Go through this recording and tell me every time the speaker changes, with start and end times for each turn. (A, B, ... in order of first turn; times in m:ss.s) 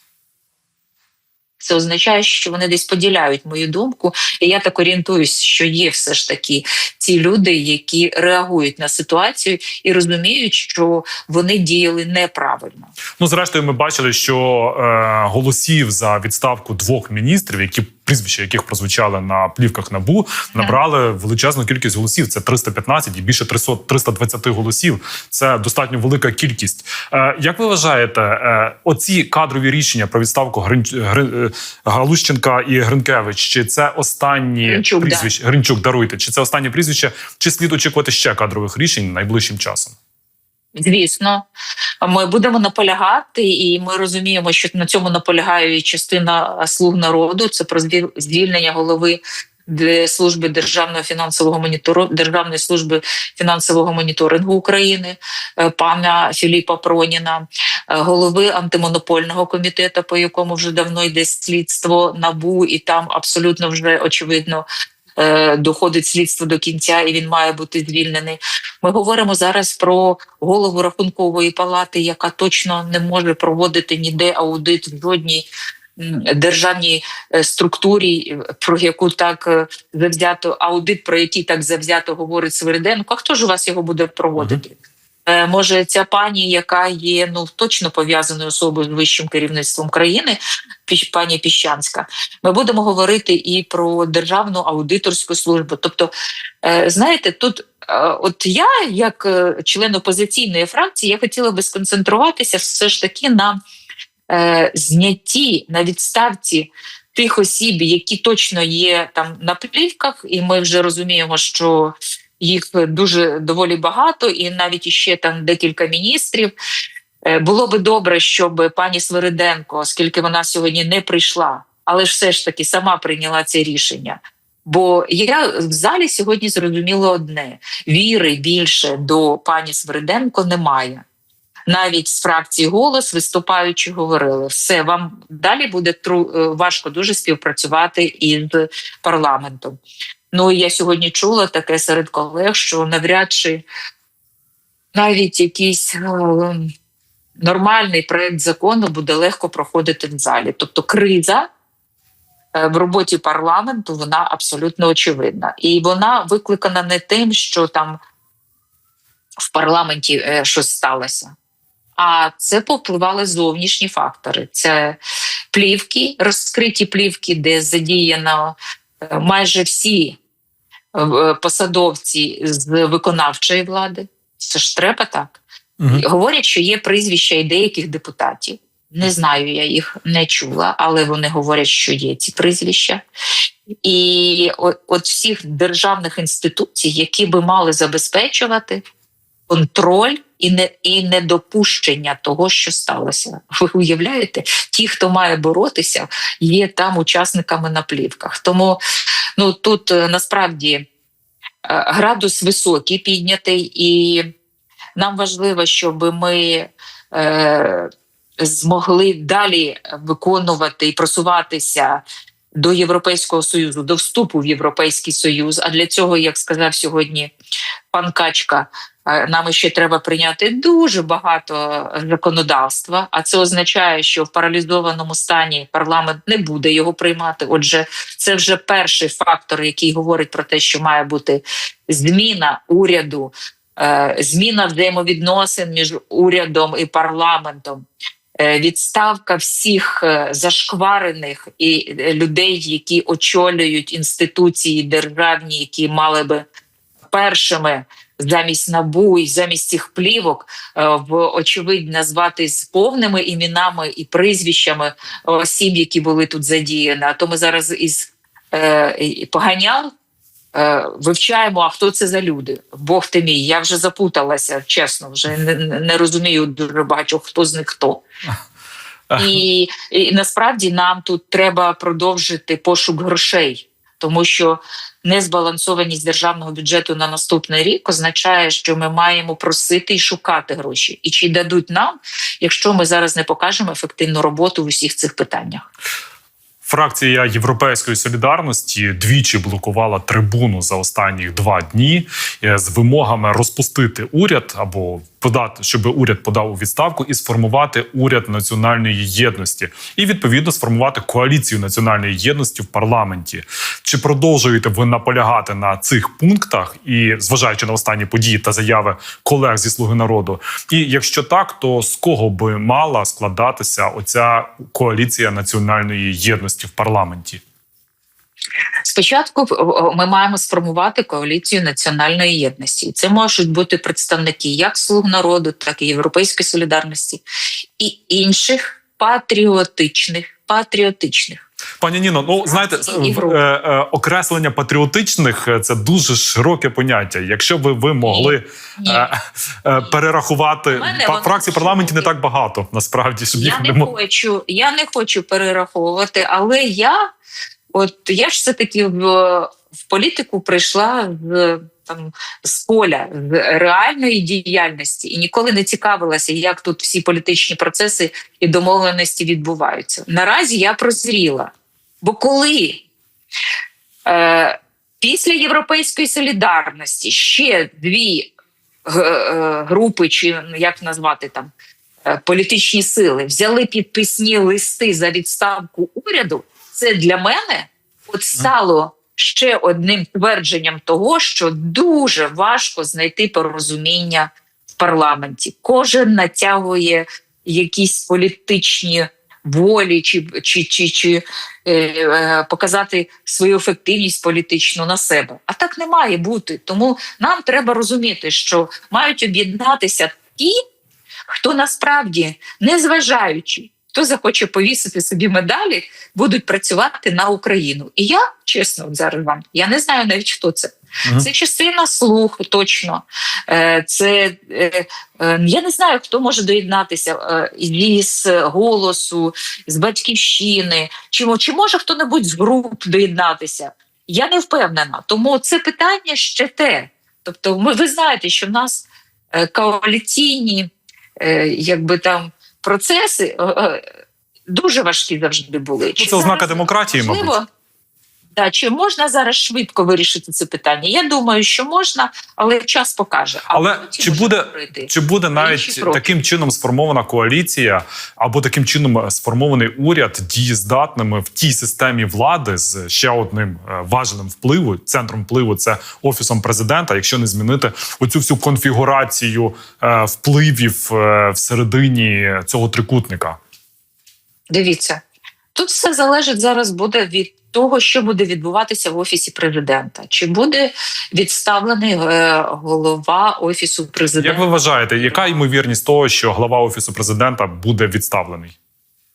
0:01.6-0:12.9 A
0:13.2-0:40.0 B
0:34.6-0:35.3 A
0:40.7-0:41.5 A
0:42.0-1:04.6 A
1:05.2-1:36.1 A
1:36.6-1:43.6 A
1:44.3-1:56.5 A
1:57.2-2:11.0 A
2:11.7-2:19.8 A
2:20.3-2:23.6 A
2:24.9-2:26.7 A
2:27.4-2:31.5 A
2:32.5-2:38.0 A
2:39.4-2:41.3 A
2:42.0-2:45.0 A
2:45.5-2:50.2 A
2:50.9-3:03.0 A
2:55.8-2:56.0 B
3:03.8-3:08.8 A
3:09.5-3:18.8 A
3:19.4-3:20.9 A
3:21.6-3:24.3 A
3:25.0-3:27.9 A
3:28.4-3:32.0 A
3:32.6-3:37.3 A
3:37.9-3:57.8 A
3:58.4-4:06.4 A
4:07.1-4:19.9 A
4:20.5-4:28.0 A
4:29.1-4:29.4 B
4:29.2-4:45.7 A
4:46.6-5:17.4 B
5:18.8-5:27.2 A
5:27.8-5:31.4 A
5:31.8-5:43.9 B
5:32.4-5:33.4 A
5:38.0-5:39.1 A
5:40.7-5:42.1 A
5:43.4-5:47.1 A
5:47.7-6:02.8 A
6:04.0-6:08.3 A
6:08.8-6:11.5 A
6:12.0-6:40.6 A
6:41.3-7:13.8 A
7:14.5-7:17.5 A
7:16.0-7:17.3 B
7:18.4-7:26.2 A
7:23.5-7:43.4 B
7:44.5-7:45.0 A
7:45.5-7:54.4 A
7:54.2-7:58.5 B
7:55.0-7:55.4 A